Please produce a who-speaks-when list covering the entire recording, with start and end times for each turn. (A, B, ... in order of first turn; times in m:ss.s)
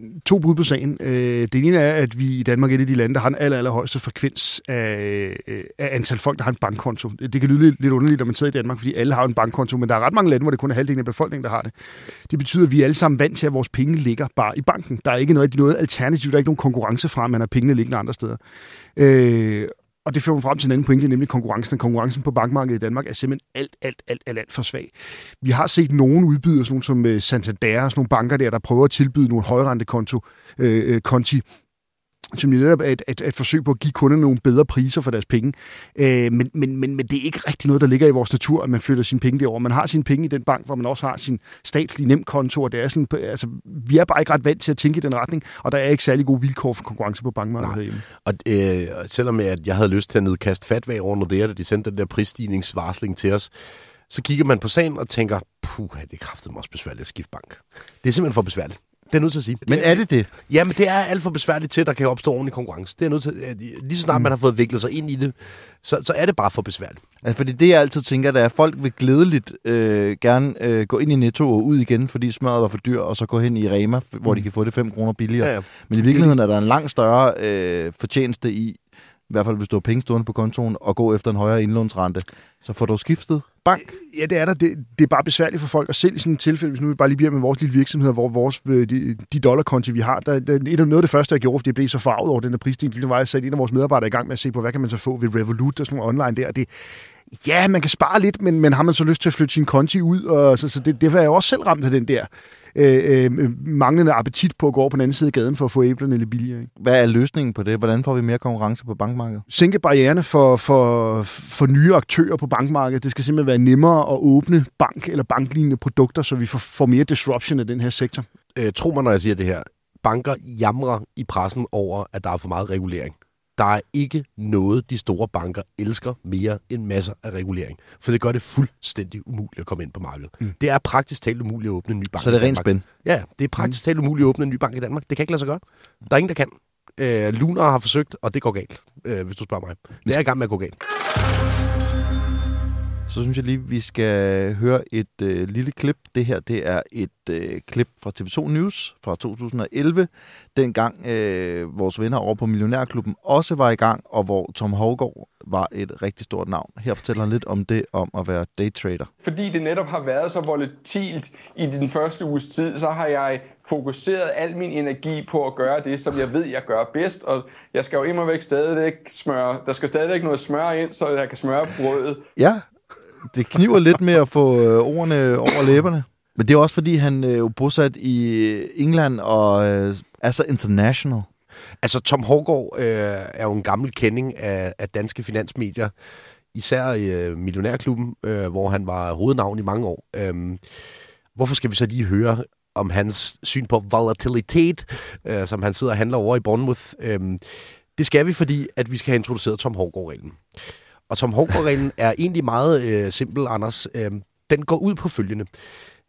0:00.1-0:11.7 A
0:12.3-0:18.4 A
0:19.0-0:31.4 A
0:32.3-0:48.0 A
0:47.6-0:53.5 B
0:54.1-1:07.0 B
0:59.6-1:00.3 C
1:07.2-1:24.0 C
1:23.9-1:46.7 A
1:46.8-1:49.4 C
1:49.5-1:58.3 A
1:58.5-2:20.8 B
2:12.2-2:12.8 C
2:23.1-2:39.1 C
2:39.2-2:52.2 D
2:52.4-2:52.7 C
2:53.2-3:01.3 C
3:01.8-3:05.9 B
3:06.5-3:10.8 B
3:11.3-3:25.5 B